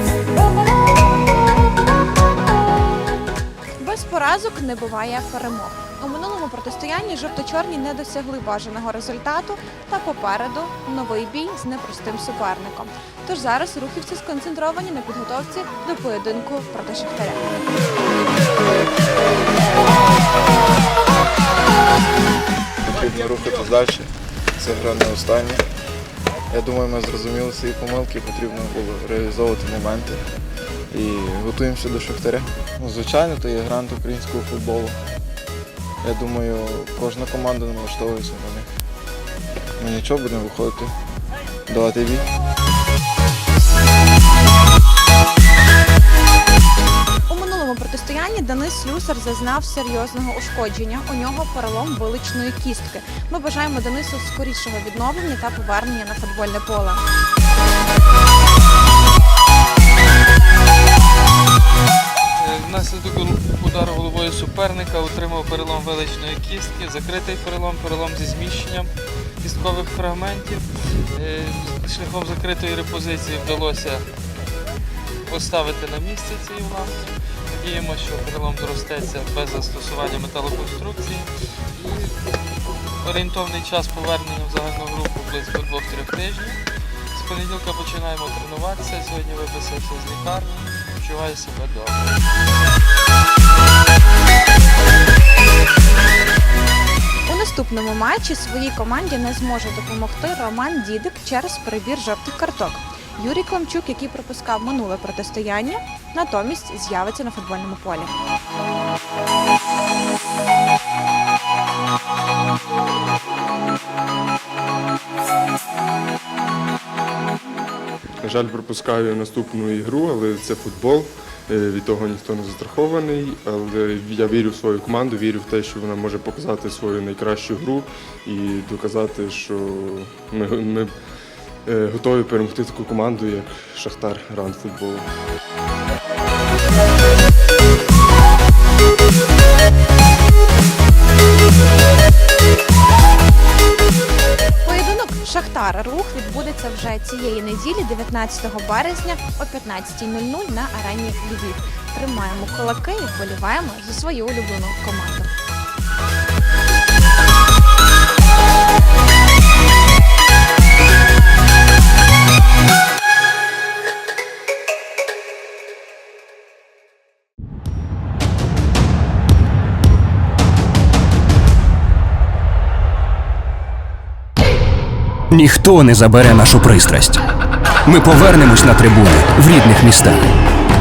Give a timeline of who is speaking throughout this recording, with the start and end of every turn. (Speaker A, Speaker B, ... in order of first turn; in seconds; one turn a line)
Speaker A: 3.8-17.6
Speaker B: 22.8-25.6
Speaker B: 26.5-30.2
Speaker B: 30.9-35.0
Speaker B: 36.0-38.7
Speaker B: 39.8-40.9
Speaker B: 41.7-42.2
Speaker A: 47.3-57.0
Speaker C: 62.3-74.1
Speaker C: 75.3-82.2
Speaker C: 83.0-86.6
Speaker C: 87.1-92.1
Speaker A: 97.3-108.1
Speaker D: 118.2-130.9
Speaker D: 131.7-135.1
Speaker A: 144.6-155.3
Speaker E: 175.3-177.2
Speaker E: 177.8-180.3